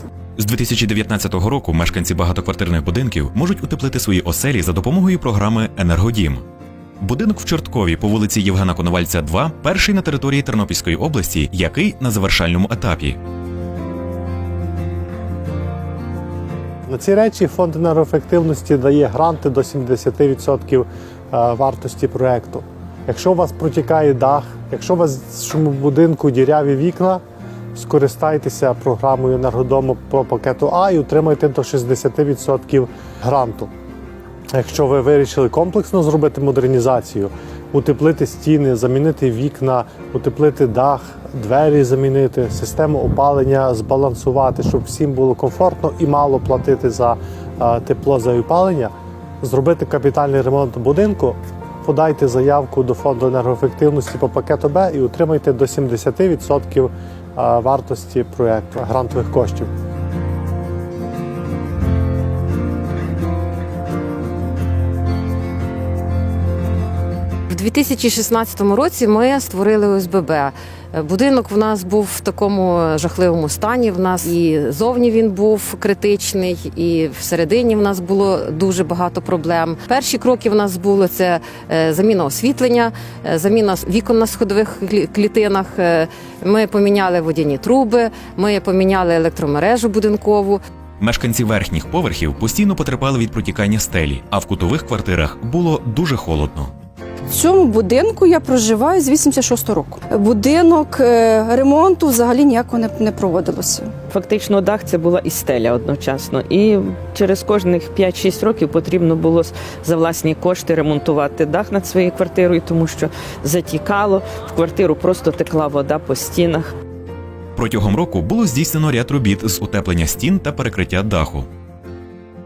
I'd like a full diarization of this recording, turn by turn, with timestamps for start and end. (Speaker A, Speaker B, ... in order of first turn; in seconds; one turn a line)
Speaker A: 0.4-6.4
Speaker A: 7.0-13.2
Speaker B: 16.9-27.2
Speaker B: 27.8-33.7
Speaker B: 34.5-59.7
Speaker C: 67.5-90.6
Speaker A: 91.0-96.7
Speaker D: 97.3-103.9
Speaker E: 104.1-116.7
Speaker A: 117.6-121.5